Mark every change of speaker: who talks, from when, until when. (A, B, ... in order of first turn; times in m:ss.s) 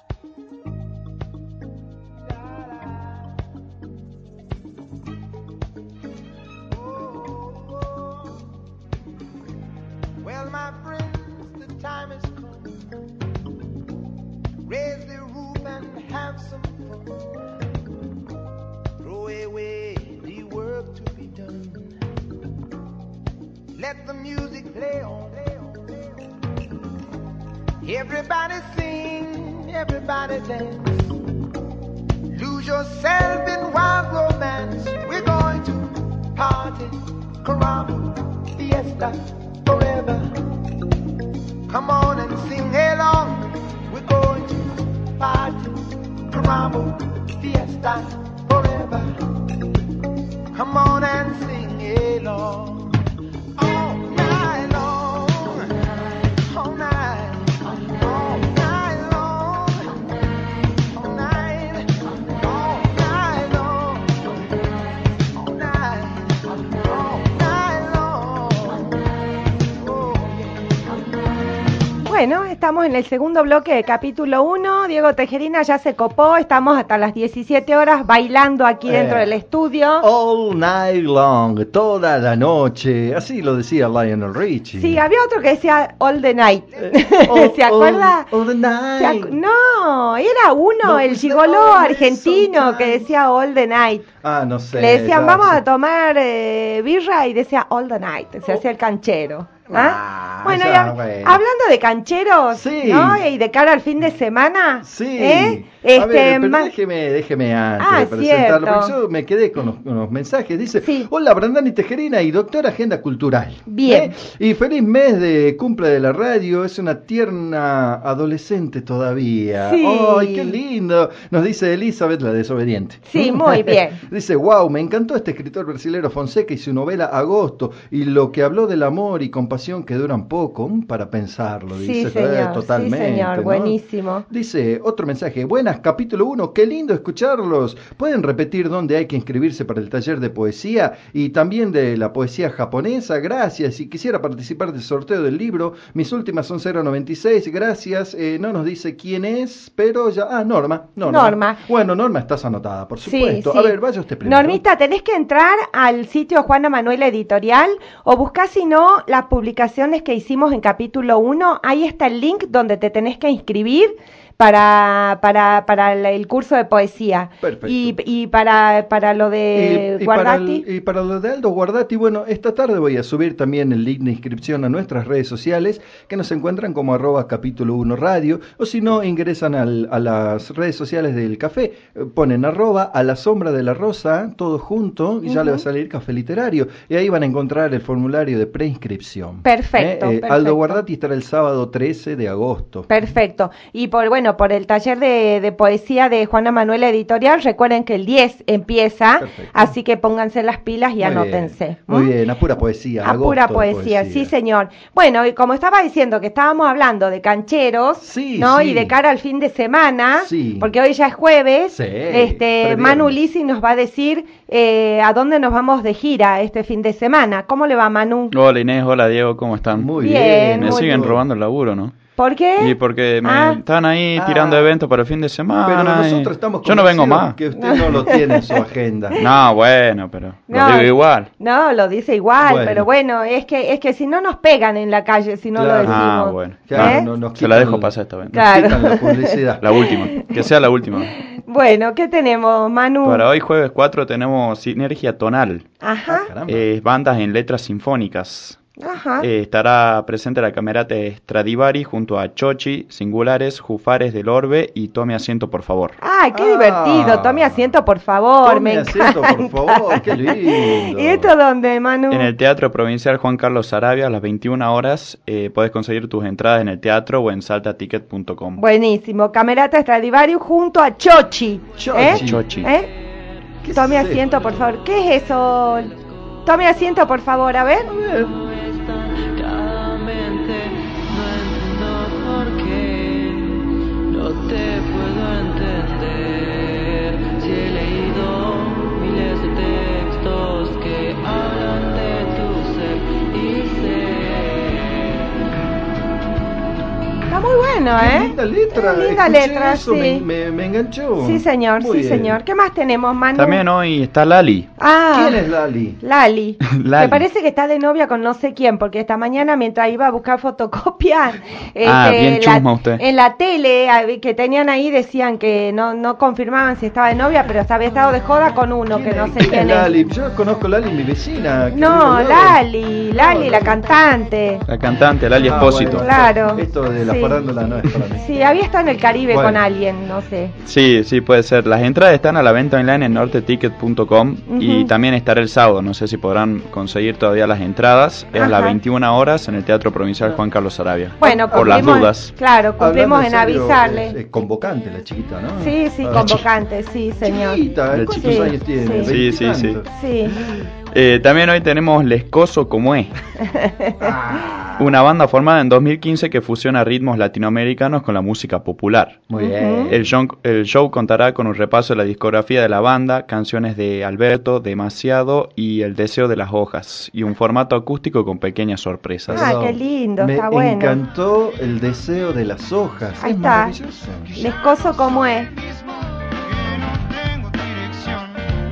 0:06.7-0:08.3 A
0:10.2-0:12.8 A
0:14.6-0:17.1 A
0:19.0-0:21.8 A
0:23.7-0:26.1 A
0:27.8-0:31.1 A
0:32.3-0:40.3 A
0:41.7-0:49.1 A
0:50.5-0:53.0 A
0:53.6-0:55.7 A
0:56.4-1:00.0 A
1:00.9-1:04.2 A
1:05.3-1:08.9 A
1:09.8-1:10.7 A
1:12.0-1:20.1 B
1:18.8-1:19.3 C
1:20.0-1:25.0 C
1:24.8-1:28.3 B
1:26.8-1:29.4 C
1:29.0-1:34.0 B
1:30.8-1:33.1 C
1:34.2-1:35.6 C
1:34.7-1:46.7 B
1:39.7-1:41.4 C
1:42.5-1:43.2 C
1:44.8-2:34.6 C
1:47.8-1:48.9 B
1:50.8-1:51.1 B
1:53.7-1:54.1 B
1:59.6-2:00.6 B
2:03.1-2:04.0 B
2:11.7-2:14.2 B
2:31.0-2:31.6 B
2:33.0-2:50.6 B
2:47.4-2:48.0 C
2:49.5-3:12.9 C
3:05.3-3:05.6 B
3:09.4-3:10.8 B
3:12.9-3:22.1 B
3:19.2-3:19.7 C
3:21.0-3:24.3 C
3:23.0-3:38.3 B
3:28.0-3:28.9 C
3:30.2-3:30.7 C
3:31.7-3:33.2 C
3:38.3-3:39.9 D
3:39.7-3:41.2 C
3:40.0-3:41.0 B
3:40.5-3:42.0 D
3:42.2-3:43.6 B
3:42.6-3:47.4 D
3:44.1-3:44.7 C
3:45.6-3:49.2 C
3:47.6-3:48.6 B
3:49.2-3:51.3 D
3:50.5-3:57.1 B
3:52.4-3:52.9 C
3:55.5-3:56.0 C
3:55.8-3:58.4 D
3:56.7-3:59.6 C
3:58.3-3:59.4 B
3:59.6-4:01.1 D
4:01.2-4:03.2 B
4:03.0-4:05.7 D
4:05.8-4:06.3 B
4:06.1-4:06.6 C
4:06.5-4:08.6 D
4:08.8-4:09.3 B
4:09.2-4:16.0 D
4:16.0-4:22.3 B
4:16.3-4:17.8 C
4:18.4-4:21.3 C
4:22.1-4:28.6 D
4:28.6-4:32.9 B
4:31.8-4:32.5 C
4:32.0-4:32.7 D
4:33.6-4:34.3 C
4:33.7-4:35.9 B
4:36.4-4:37.9 B
4:37.8-4:38.4 C
4:38.2-4:55.3 E
4:57.3-5:00.2 B
4:58.0-5:02.4 C
5:01.2-5:03.6 B
5:03.3-5:04.7 D
5:04.8-5:05.4 B
5:05.1-5:06.0 C
5:06.0-5:19.9 B
5:06.6-5:07.2 D
5:11.8-5:13.0 D
5:18.9-5:22.6 C
5:21.7-5:24.6 B
5:23.1-5:23.8 C
5:24.6-5:26.0 D
5:25.4-5:28.3 C
5:25.8-5:27.4 B
5:28.2-5:30.5 B
5:29.3-5:29.6 C
5:30.6-5:42.3 D
5:34.5-5:34.9 B
5:38.3-5:38.8 B
5:41.2-5:44.2 B
5:41.2-5:42.1 C
5:42.8-5:46.4 C
5:45.6-5:47.6 B
5:46.1-5:46.4 D
5:47.2-5:49.9 C
5:47.9-5:49.8 D
5:48.1-5:49.1 B
5:49.9-5:50.4 B
5:50.4-5:53.1 D
5:53.4-5:54.1 B
5:54.0-5:54.9 C
5:54.8-5:59.2 D
5:59.3-6:00.0 C
5:59.4-5:59.9 B
5:59.9-6:09.5 D
6:09.3-6:14.3 C
6:09.3-6:11.0 B
6:13.2-6:13.8 B
6:14.4-6:15.5 B
6:14.4-6:18.5 A